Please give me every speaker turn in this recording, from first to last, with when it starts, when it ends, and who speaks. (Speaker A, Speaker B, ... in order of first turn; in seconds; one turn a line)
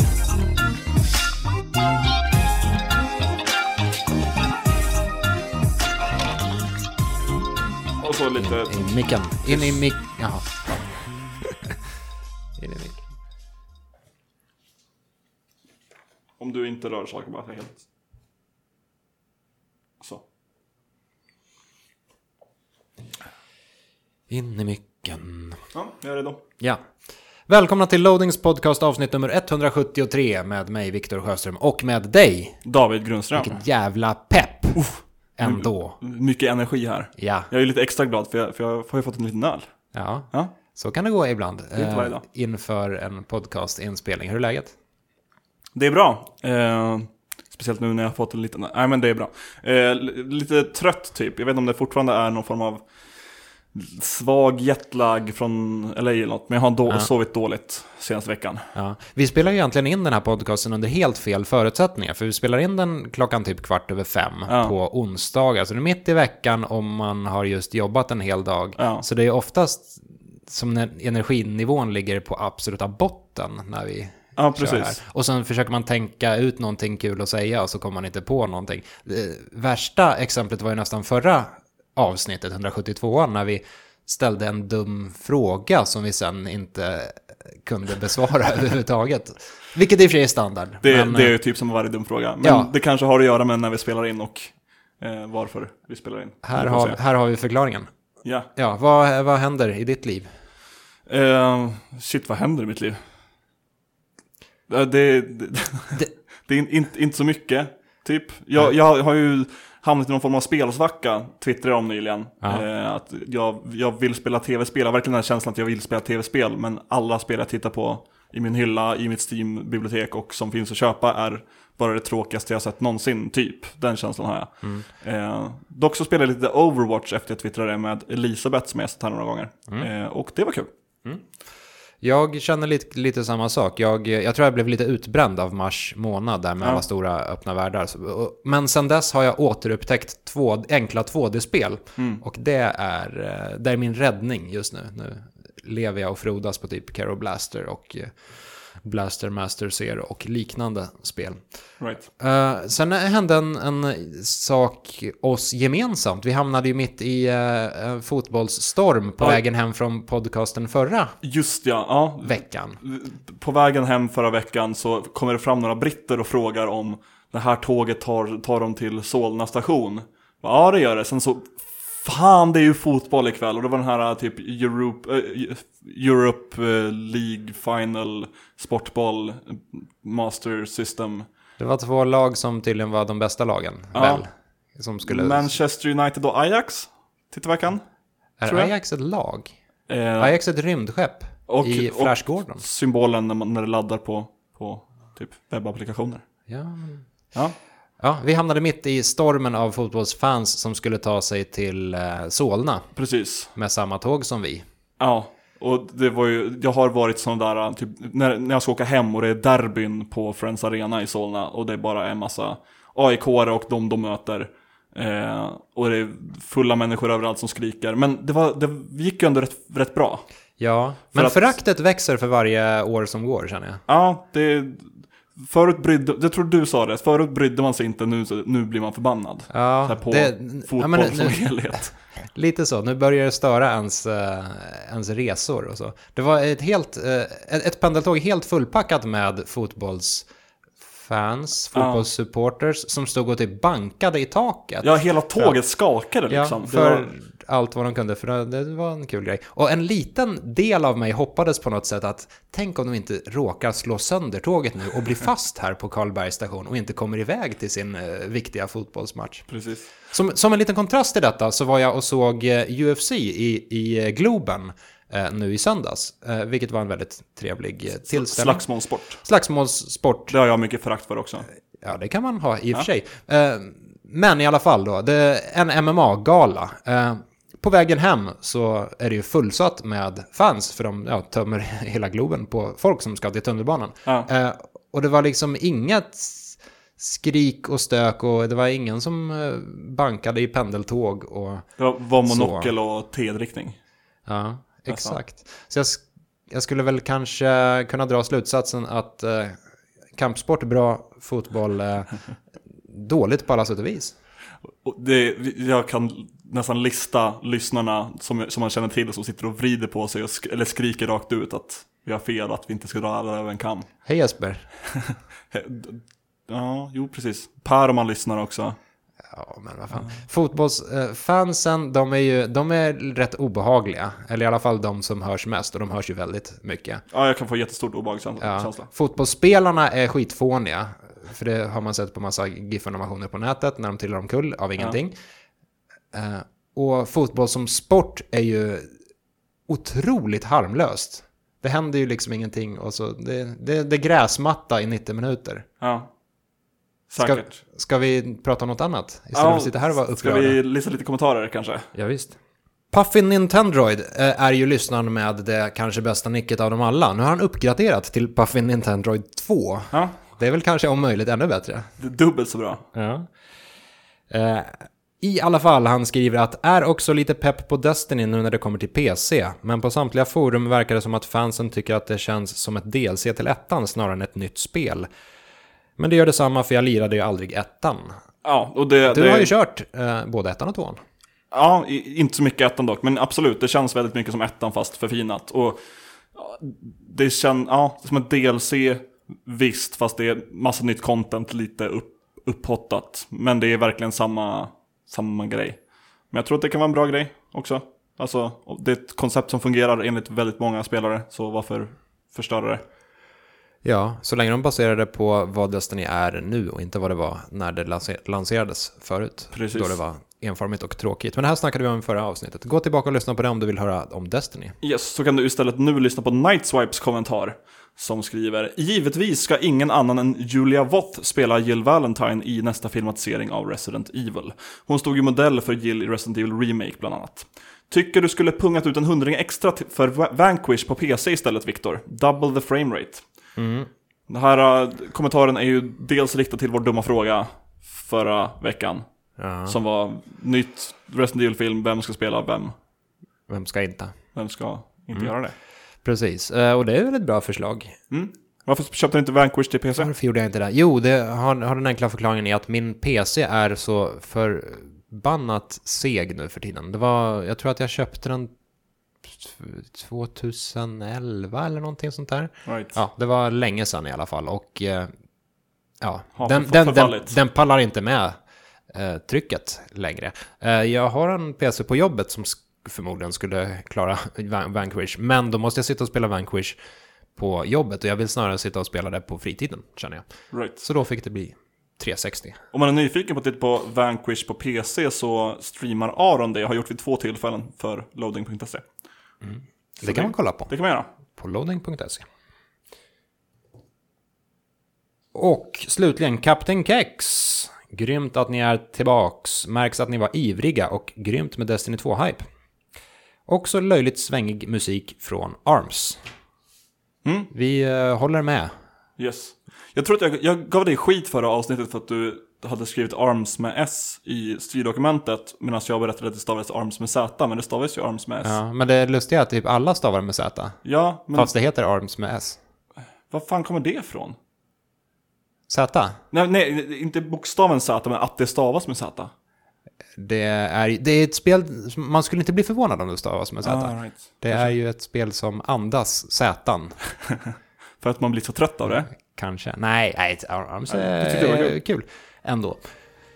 Speaker A: 8.0-9.7
Speaker B: 8.4-11.2
Speaker B: 12.6-13.1
Speaker A: 16.4-17.8
Speaker B: 24.3-25.7
Speaker A: 25.7-26.4
Speaker B: 27.5-32.6
Speaker A: 32.6-33.6
Speaker B: 33.4-36.0
Speaker A: 34.8-40.5
Speaker B: 37.2-37.5
Speaker B: 39.9-44.8
Speaker A: 41.7-42.2
Speaker A: 45.8-58.7
Speaker B: 58.7-91.3
Speaker A: 64.5-64.7
Speaker A: 68.8-69.0
Speaker A: 74.4-75.0
Speaker A: 90.8-97.0
Speaker B: 92.4-92.7
Speaker B: 96.5-97.9
Speaker A: 98.2-98.5
Speaker B: 98.5-100.3
Speaker A: 101.1-103.0
Speaker A: 104.7-130.7
Speaker B: 131.0-131.3
Speaker B: 132.0-161.2
Speaker A: 142.0-142.2
Speaker A: 151.8-152.0
Speaker A: 161.2-181.3
Speaker B: 162.2-162.8
Speaker B: 181.6-185.5
Speaker A: 183.9-184.2
Speaker A: 185.1-187.9
Speaker B: 188.4-189.6
Speaker A: 188.4-188.7
Speaker A: 189.9-190.3
Speaker B: 190.2-192.6
Speaker A: 191.5-196.2
Speaker B: 196.5-197.4
Speaker B: 198.0-204.7
Speaker A: 202.9-203.5
Speaker A: 205.0-220.3
Speaker B: 220.6-223.8
Speaker A: 221.1-221.6
Speaker A: 223.9-232.0
Speaker B: 229.5-240.3
Speaker B: 240.9-245.6
Speaker A: 241.7-242.1
Speaker A: 244.8-247.1
Speaker B: 246.3-259.5
Speaker A: 259.5-259.9
Speaker B: 260.1-270.4
Speaker A: 268.0-269.2
Speaker A: 270.3-271.5
Speaker B: 271.8-292.7
Speaker A: 291.8-293.8
Speaker B: 294.3-304.2
Speaker A: 294.9-295.2
Speaker A: 304.8-313.9
Speaker B: 314.1-315.1
Speaker A: 315.5-318.8
Speaker B: 319.3-327.1
Speaker A: 319.9-320.2
Speaker A: 327.1-328.9
Speaker B: 328.4-335.2
Speaker B: 336.1-338.9
Speaker B: 339.7-345.7
Speaker A: 345.8-346.1
Speaker A: 347.1-347.5
Speaker B: 347.2-350.6
Speaker A: 349.3-351.9
Speaker B: 351.9-352.4
Speaker B: 352.9-361.9
Speaker A: 362.0-362.8
Speaker B: 362.9-363.4
Speaker B: 364.3-375.1
Speaker B: 376.0-378.2
Speaker A: 378.4-379.5
Speaker B: 379.1-381.0
Speaker A: 381.5-402.8
Speaker B: 403.8-414.8
Speaker A: 409.5-410.0
Speaker A: 414.8-433.3
Speaker B: 433.6-433.9
Speaker A: 434.3-442.7
Speaker B: 439.4-439.8
Speaker B: 443.5-444.4
Speaker A: 444.4-445.6
Speaker B: 446.0-448.0
Speaker A: 448.1-450.1
Speaker B: 449.9-458.6
Speaker B: 459.2-465.1
Speaker A: 462.7-463.0
Speaker B: 466.0-476.8
Speaker A: 466.4-467.4
Speaker B: 477.4-482.6
Speaker A: 480.5-480.8
Speaker A: 482.7-488.9
Speaker B: 489.4-490.8
Speaker A: 490.0-491.1
Speaker B: 491.4-492.3
Speaker B: 495.3-502.4
Speaker B: 503.5-506.2
Speaker A: 507.2-507.5
Speaker B: 507.5-508.7
Speaker A: 509.2-518.5
Speaker B: 518.4-522.6
Speaker A: 520.8-521.5
Speaker A: 523.3-524.4
Speaker B: 525.7-526.2
Speaker A: 526.3-529.3
Speaker B: 530.2-537.0
Speaker A: 533.6-534.8
Speaker A: 538.0-539.1
Speaker B: 539.1-543.1
Speaker A: 540.9-541.8